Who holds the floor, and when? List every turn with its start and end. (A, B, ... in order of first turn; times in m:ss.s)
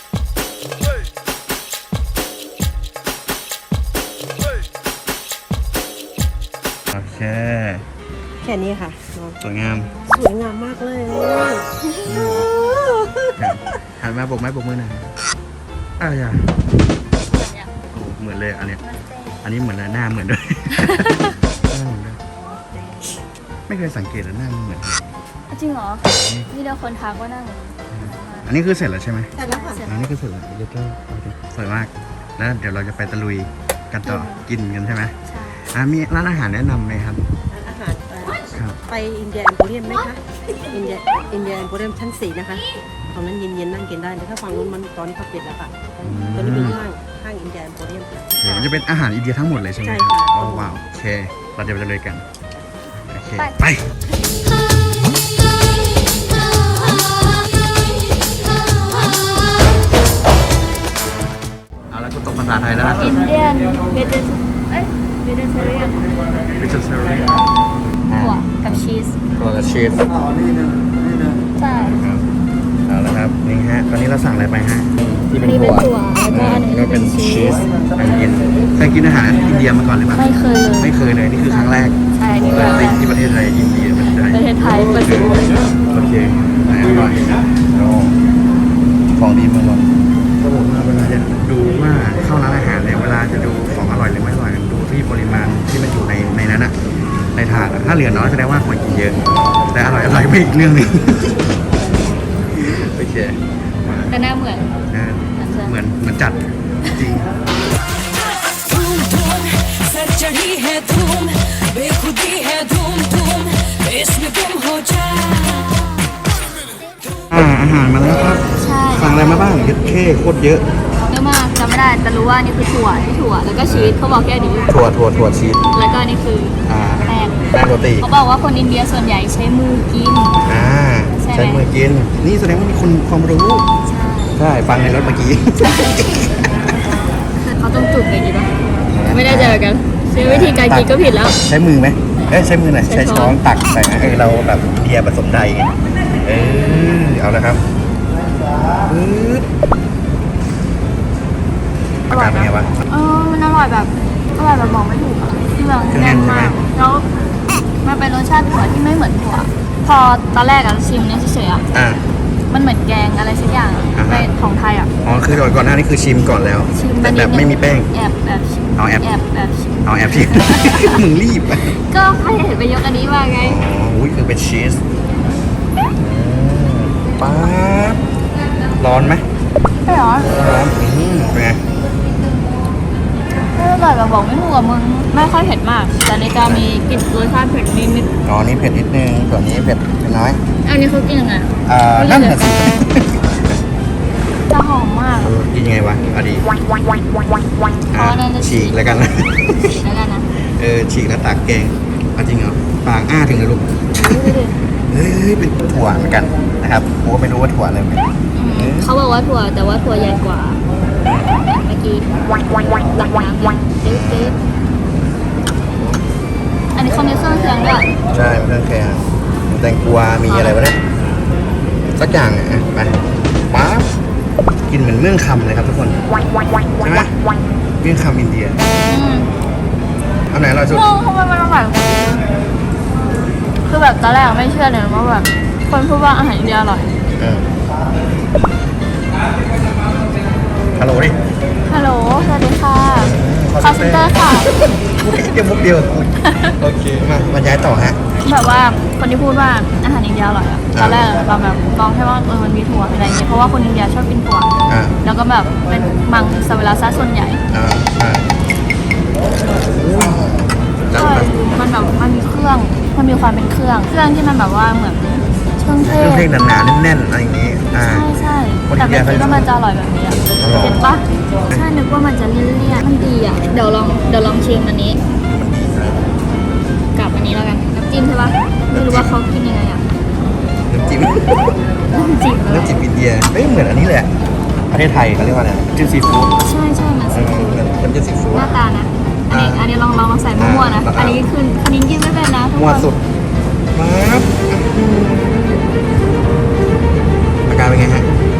0:06.9-0:07.8 A
0:08.4-0:09.4 B
0:09.4-0:09.9 A
0:10.0-0:11.7 B
0:12.0-0:12.5 A
0:12.4-0:13.3 B
0:13.4-0:15.1 A
0:16.0-0:16.5 A
0:17.3-0:17.7 C
0:17.9-0:18.8 A
0:18.8-0:19.4 C
0:19.4-0:22.2 A
0:23.7-0:25.1 A
0:25.5-0:28.5 C
0:26.0-0:26.5 A
0:27.9-0:29.3 A
0:29.4-0:30.0 C
0:29.4-0:29.8 B
0:29.8-0:35.1 A
0:34.0-0:34.4 C
0:35.2-0:35.7 C
0:35.7-0:37.3 A
0:37.5-0:48.4 B
0:38.5-0:38.8 A
0:46.0-0:46.8 A
0:48.4-0:52.2 A
0:48.4-0:48.7 C
0:49.8-0:50.7 B
0:53.0-0:53.8 A
0:53.3-0:53.7 C
1:01.9-1:03.2 A
1:02.9-1:06.1 C
1:06.6-1:07.5 A
1:08.1-1:10.1 A
1:08.2-1:09.2 C
1:10.8-1:12.3 A
1:11.6-1:12.0 C
1:12.9-1:24.4 A
1:15.4-1:17.6 C
1:20.2-1:20.9 C
1:21.4-1:23.0 C
1:24.3-1:25.4 C
1:25.0-1:28.2 A
1:29.1-1:36.8 A
1:37.3-1:41.5 A
1:42.5-1:44.1 A
1:44.1-1:44.7 C
1:44.9-1:47.3 A
1:45.4-1:45.7 C
1:48.6-1:55.9 C
1:57.3-2:00.7 A
1:58.6-1:59.2 C
2:01.1-2:04.7 C
2:03.7-2:04.0 A
2:04.7-2:05.7 A
2:05.7-2:07.4 C
2:06.6-2:08.1 A
2:08.0-2:10.4 C
2:10.4-2:13.7 A
2:11.2-2:11.6 C
2:13.8-2:14.4 C
2:14.4-2:16.1 A
2:17.5-2:18.5 C
2:18.9-2:19.6 A
2:19.1-2:21.4 C
2:20.2-2:27.6 A
2:22.8-2:23.4 C
2:28.9-2:29.5 A
2:32.1-2:32.7 A
2:32.1-2:37.0 C
2:34.4-2:34.7 A
2:35.9-2:36.6 A
2:37.8-2:41.6 C
2:41.7-2:42.0 A
2:42.5-2:44.9 C
2:43.9-2:44.3 A
2:45.0-2:47.9 A
2:46.7-2:51.0 C
2:48.8-2:49.1 A
2:49.8-2:51.7 A
2:51.6-2:53.6 C
2:53.4-2:54.8 A
2:56.0-2:58.0 A
2:58.8-2:59.3 A
2:59.8-3:00.4 C
3:00.3-3:01.6 A
3:03.5-3:08.1 C
3:06.2-3:06.7 A
3:08.2-3:10.4 A
3:10.6-3:12.5 C
3:11.6-3:13.3 A
3:14.5-3:15.3 C
3:15.1-3:16.5 A
3:17.9-3:19.8 A
3:17.9-3:20.3 C
3:20.4-3:24.3 A
3:23.9-3:24.6 C
3:24.9-3:28.9 A
3:28.3-3:30.6 C
3:31.0-3:31.5 A
3:31.4-3:34.4 C
3:33.8-3:34.4 A
3:35.8-3:36.0 A
3:36.7-3:37.9 C
3:38.1-3:40.8 A
3:40.3-3:40.6 C
3:41.9-3:43.9 A
3:44.7-3:46.0 A
3:46.8-3:47.1 A
3:47.8-3:48.6 A
3:48.8-3:49.3 C
3:50.3-3:50.9 A
3:50.7-3:52.2 C
3:53.6-3:56.9 C
3:57.2-3:57.5 A
4:00.8-4:01.2 A
4:01.6-4:04.5 C
4:02.9-4:08.0 A
4:06.2-4:06.6 C
4:08.2-4:14.5 C
4:10.7-4:11.2 A
4:14.7-4:15.0 A
4:15.0-4:17.4 C
4:17.5-4:18.3 A
4:19.6-4:21.3 A
4:20.9-4:26.3 C
4:25.8-4:28.1 A
4:27.7-4:35.0 C
4:28.7-4:29.5 A
4:30.4-4:30.8 A
4:35.2-4:36.0 A
4:36.9-4:39.8 C
4:38.7-4:39.1 A
4:40.7-4:41.6 A
4:41.9-4:42.7 C
4:42.4-4:44.1 A
4:44.7-4:46.4 A
4:46.4-4:47.6 C
4:47.1-4:48.5 A
4:48.3-4:52.9 C
4:49.3-4:49.7 A
4:50.4-4:51.2 A
4:52.5-4:53.0 A
4:53.7-4:55.6 A
4:57.4-4:58.1 A